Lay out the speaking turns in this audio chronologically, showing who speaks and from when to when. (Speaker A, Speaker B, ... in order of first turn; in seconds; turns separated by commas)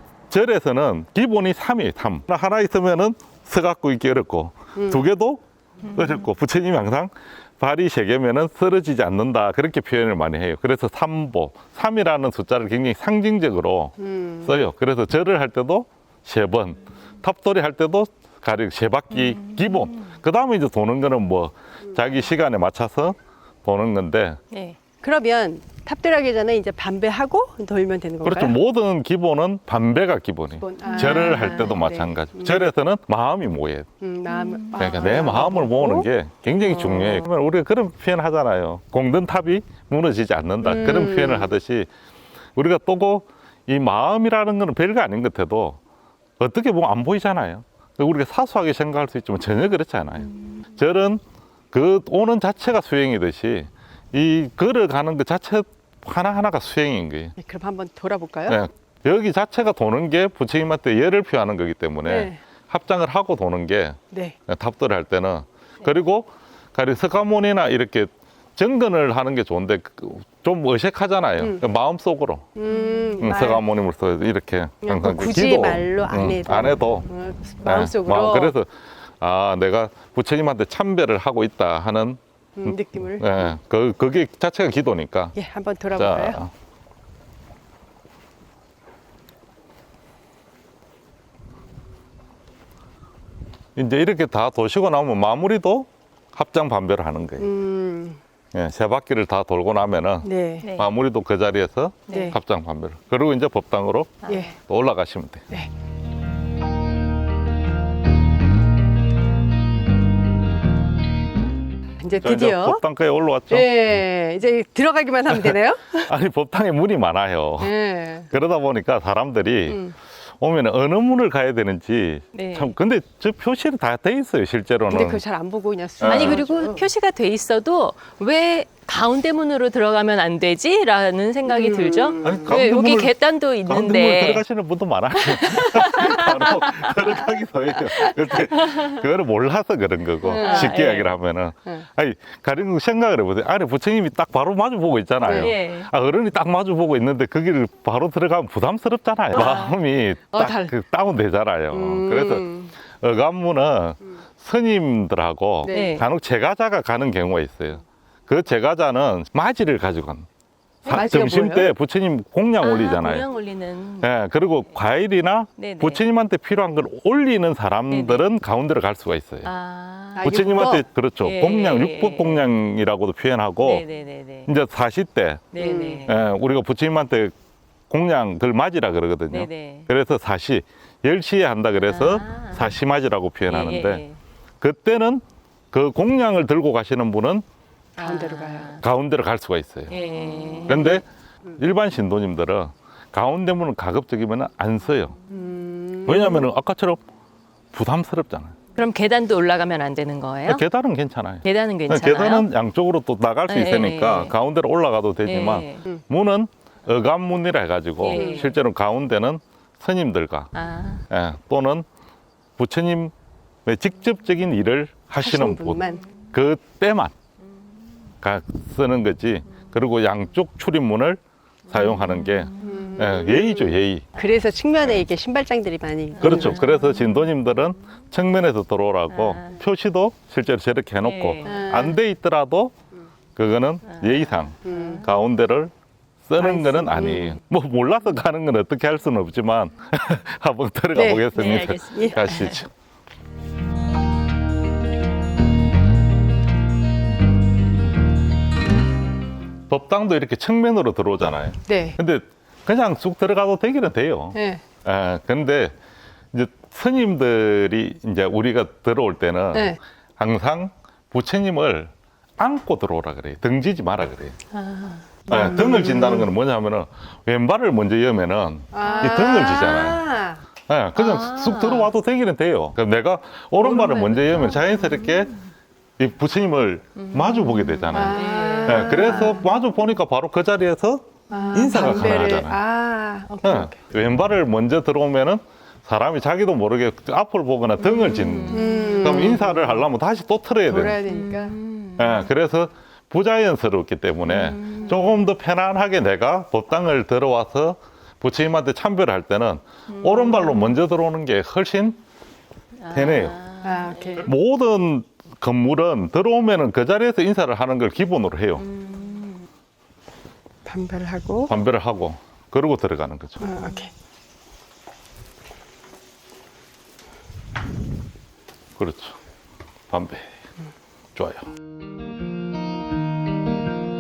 Speaker A: 0.3-24.4, Speaker B: 4.8-5.0, Speaker C: 5.8-6.2, Speaker B: 14.0-14.5, Speaker C: 19.1-20.1, Speaker C: 24.5-24.8, Speaker B: 25.0-28.6, Speaker A: 28.2-33.9, Speaker B: 30.6-32.6, Speaker C: 30.8-31.9, Speaker B: 34.0-36.1, Speaker C: 34.3-35.5, Speaker A: 34.8-41.9, Speaker C: 36.8-37.1, Speaker B: 40.6-41.5, Speaker A: 42.5-45.8, Speaker A: 46.4-51.2, Speaker A: 51.7-57.3, Speaker B: 57.4-58.6, Speaker A: 58.5-72.5, Speaker B: 62.0-62.4, Speaker B: 64.1-64.4, Speaker B: 71.4-71.6, Speaker B: 72.5-73.6, Speaker A: 73.2-77.1, Speaker B: 74.8-78.5, Speaker A: 77.6-85.3, Speaker B: 82.6-83.5, Speaker B: 85.3-86.4, Speaker A: 85.9-86.5, Speaker A: 93.8-97.5, Speaker B: 97.4-98.2, Speaker A: 98.5-105.5, Speaker B: 100.2-100.7, Speaker C: 100.6-100.9, Speaker B: 102.1-102.4, Speaker C: 104.2-104.5, Speaker B: 104.3-104.5, Speaker B: 112.0-112.8, Speaker A: 112.2-113.9, Speaker B: 113.5-116.1, Speaker A: 115.3-117.7, Speaker B: 117.6-118.3, Speaker A: 118.3-119.8, Speaker B: 119.7-119.9, Speaker A: 120.4-125.2, Speaker C: 122.3-122.7, Speaker B: 124.9-126.8, Speaker A: 126.0-126.4, Speaker C: 126.0-134.4, Speaker B: 131.4-132.6, Speaker A: 132.2-133.1, Speaker A: 133.7-152.5, Speaker C: 135.1-138.9, Speaker B: 140.2-140.8, Speaker C: 140.3-141.2, Speaker B: 145.2-145.5, Speaker C: 145.3-145.9, Speaker B: 149.3-149.7, Speaker B: 150.3-150.7, Speaker B: 151.7-152.7, Speaker A: 153.0-160.2, Speaker B: 155.6-156.0, Speaker C: 155.7-156.0, Speaker C: 160.8-161.3, Speaker A: 160.8-163.3, Speaker B: 160.9-161.7, Speaker C: 162.6-164.1, Speaker A: 164.0-169.5, Speaker C: 165.6-166.0, Speaker C: 167.9-168.2, Speaker C: 169.4-170.3, Speaker B: 170.2-170.8, Speaker A: 170.2-173.8, Speaker C: 171.2-172.4, Speaker C: 173.6-174.5, Speaker A: 174.4-177.3, Speaker C: 175.5-176.2, Speaker B: 175.6-176.0, Speaker A: 177.9-184.0, Speaker C: 179.3-179.9, Speaker C: 181.9-182.7, Speaker C: 183.5-184.2, Speaker A: 184.6-187.4, Speaker B: 187.9-188.8, Speaker C: 188.0-188.8, Speaker A: 188.8-189.9, Speaker C: 189.9-190.9, Speaker A: 190.7-191.0, Speaker A: 191.6-195.2, Speaker B: 195.3-196.4, Speaker A: 196.1-197.0, Speaker A: 197.7-198.6, Speaker C: 198.7-200.6, Speaker A: 200.4-210.5, Speaker C: 201.4-202.5, Speaker C: 203.5-204.3, Speaker C: 205.2-205.8, Speaker C: 208.0-208.6, Speaker B: 208.1-208.5, Speaker C: 210.5-211.0, Speaker A: 211.1-211.8, Speaker A: 212.6-213.1, Speaker A: 213.7-215.8, Speaker B: 215.2-216.0, Speaker A: 216.3-217.1, Speaker A: 218.2-224.1, Speaker C: 221.7-222.9, Speaker B: 222.6-226.6, Speaker C: 226.2-227.3, Speaker A: 226.2-232.7, Speaker C: 229.1-229.6, Speaker C: 231.0-231.6, Speaker B: 231.4-232.0, Speaker A: 233.3-235.7, Speaker C: 233.9-235.0, Speaker B: 234.6-235.0, Speaker A: 236.2-242.7, Speaker B: 236.4-237.4, Speaker B: 240.9-242.2, Speaker C: 241.3-242.6, Speaker A: 249.7-255.7, Speaker B: 251.7-252.0, Speaker B: 254.3-254.6, Speaker A: 256.3-264.4, Speaker B: 259.5-259.8, Speaker C: 264.6-265.4, Speaker A: 265.3-270.0, Speaker B: 265.3-266.3, Speaker B: 268.7-270.4, Speaker C: 268.8-269.4, Speaker A: 270.7-275.3, Speaker C: 270.9-271.9, Speaker C: 273.6-275.1, Speaker A: 276.0-282.6, Speaker C: 277.0-279.4, Speaker B: 277.9-279.4, Speaker B: 281.3-283.8, Speaker C: 281.3-282.2, Speaker A: 283.4-291.0, Speaker C: 287.8-289.8, Speaker B: 288.5-289.5, Speaker B: 290.7-291.6, Speaker C: 291.1-292.3, Speaker A: 292.0-302.0, Speaker C: 294.2-295.1, Speaker C: 299.9-300.8, Speaker C: 302.8-304.2, Speaker A: 302.9-303.4, Speaker B: 303.6-304.3, Speaker A: 304.2-308.6, Speaker C: 308.6-309.5, Speaker B: 310.6-311.5, Speaker A: 311.5-313.5, Speaker B: 313.4-313.9, Speaker C: 313.4-313.9, Speaker A: 318.8-319.2, Speaker A: 319.9-320.3, Speaker A: 321.1-321.5